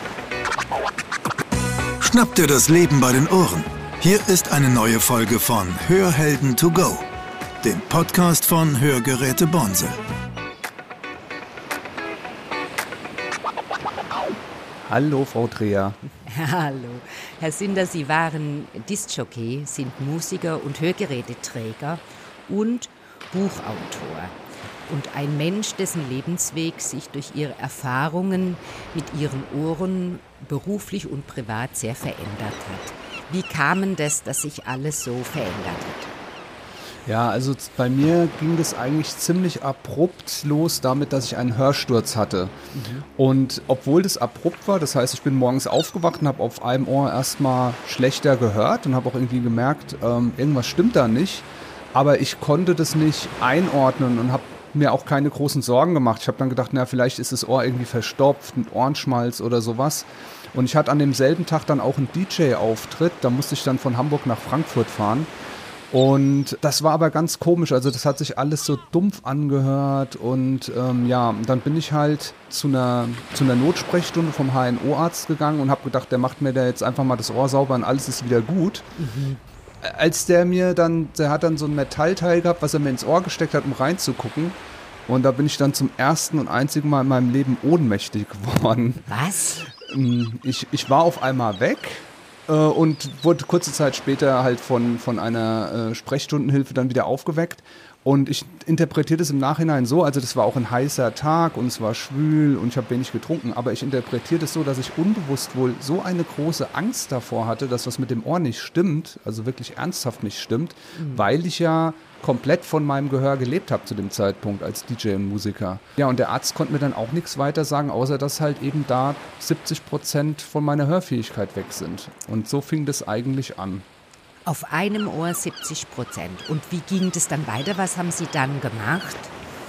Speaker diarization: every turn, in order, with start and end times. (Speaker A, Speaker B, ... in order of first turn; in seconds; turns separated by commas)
Speaker A: 2.0-7.0, Speaker A: 7.6-10.0, Speaker B: 14.8-16.0, Speaker C: 16.2-24.3, Speaker C: 24.9-36.1, Speaker B: 37.0-42.5, Speaker C: 42.7-43.0, Speaker B: 43.1-65.3, Speaker B: 65.9-78.9, Speaker C: 79.0-79.4, Speaker B: 79.8-89.1, Speaker C: 89.1-89.6, Speaker B: 89.6-123.8, Speaker C: 111.0-111.2, Speaker C: 124.5-129.3